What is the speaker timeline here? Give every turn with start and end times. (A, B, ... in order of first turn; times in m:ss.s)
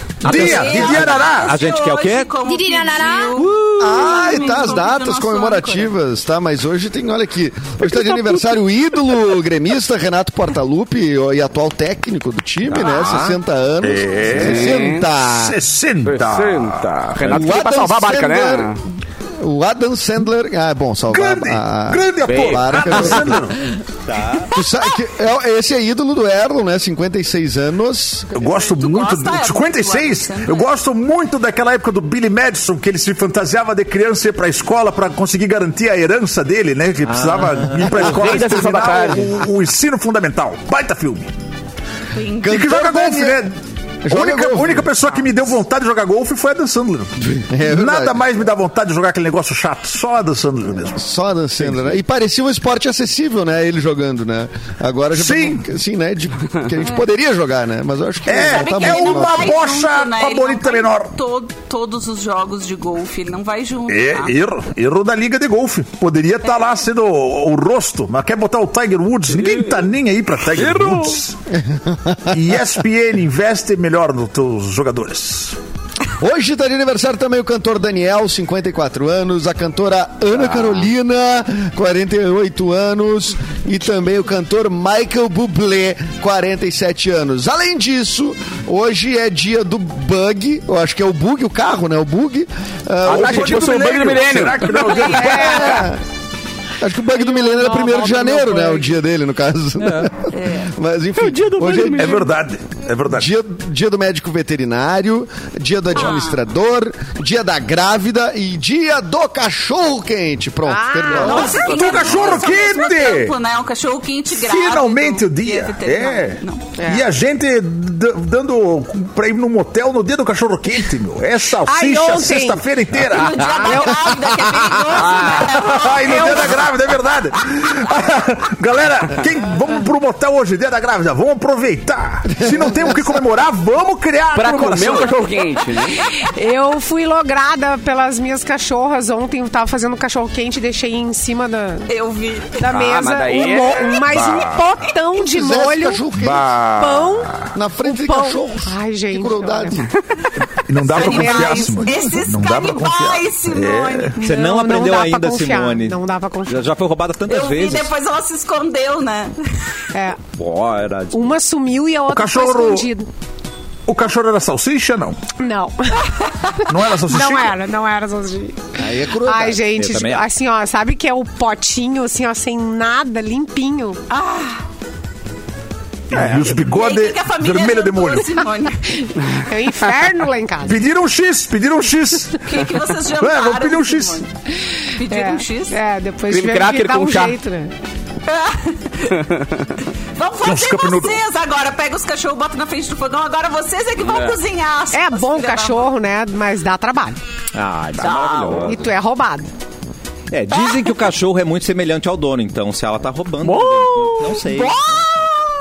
0:00.2-0:02.3 A
0:00.2-0:01.6 B
0:00.2-0:05.9 C
0:02.5-0:03.3 D
0:03.4-0:04.0 A
0:03.8-0:15.6 E
0:12.7-0:13.4 A
0:13.8-0:16.9 B
0:14.3-0:15.1 F
0:16.0-0:18.8 F
0:17.2-0:18.8 E
0:19.4-0:23.5 E
0:21.1-0:23.6 B
0:22.3-0:22.8 F
0:24.1-0:24.5 A
0:24.5-0:28.4 E
0:28.3-0:41.3 B
0:28.4-0:30.7 C
0:37.0-0:38.3 A
0:38.0-0:39.3 F
0:42.1-0:42.7 C
0:42.4-0:43.5 E
0:42.4-0:43.6 B
0:44.0-0:44.9 E
0:44.1-0:51.0 B
0:47.5-0:48.3 E
0:50.9-0:59.6 E
0:55.1-0:55.6 B
0:58.2-1:01.1 B
0:58.3-1:04.4 C
1:03.9-1:11.3 B
1:09.3-1:09.9 F
1:10.5-1:11.2 F
1:11.5-1:12.3 E
1:12.3-1:15.6 B
1:16.2-1:34.1 E
1:33.0-1:35.8 F
1:33.1-1:35.6 B
1:35.1-1:35.8 D
1:35.2-1:36.0 E
1:36.8-1:42.3 E
1:37.1-1:38.9 D
1:40.3-1:40.7 C
1:41.2-1:42.3 F
1:41.9-1:43.3 B
1:43.1-1:51.8 E
1:45.9-1:46.4 C
1:50.7-1:52.3 D
1:51.2-1:56.7 C
1:51.3-1:53.3 B
1:54.3-2:03.9 B
1:56.8-1:57.0 D
2:01.7-2:02.6 D
2:03.0-2:06.7 C
2:03.7-2:03.9 D
2:05.0-2:05.6 F
2:05.3-2:15.2 B
2:12.3-2:13.2 E
2:14.3-2:16.0 F
2:16.1-2:21.9 D
2:21.9-2:22.6 C
2:22.6-2:26.0 D
2:22.6-2:24.0 F
2:24.0-2:24.6 B
2:25.2-2:26.6 E
2:26.2-2:27.5 B
2:26.8-2:29.8 D
2:27.5-2:29.9 E
2:30.7-2:34.2 B
2:30.8-2:34.2 C
2:30.9-2:32.1 D
2:34.2-2:37.9 A
2:34.2-2:36.7 D
2:37.3-2:39.4 C
2:39.9-2:40.2 D
2:40.4-2:41.4 A
2:41.1-2:43.1 D
2:42.1-2:42.9 B
2:43.8-2:45.2 B
2:45.4-2:48.7 D
2:46.6-2:47.6 B
2:48.8-2:49.7 E
2:49.2-2:54.0 D
2:49.7-2:50.2 A
2:54.1-2:54.6 C
2:56.1-2:58.3 B
2:56.1-2:56.6 F
2:56.6-2:59.1 C
2:59.3-3:00.8 D
3:00.6-3:04.2 B
3:02.4-3:04.3 C
3:04.9-3:07.7 D
3:05.0-3:05.8 C
3:06.3-3:07.4 F
3:08.2-3:09.3 C
3:10.2-3:15.9 C
3:10.4-3:11.2 B
3:14.0-3:14.4 F
3:14.9-3:17.2 D
3:17.6-3:18.9 A
3:18.0-3:18.7 C
3:18.6-3:19.5 D
3:20.3-3:24.9 A
3:20.5-3:20.8 C
3:23.4-3:24.6 F
3:24.7-3:25.0 C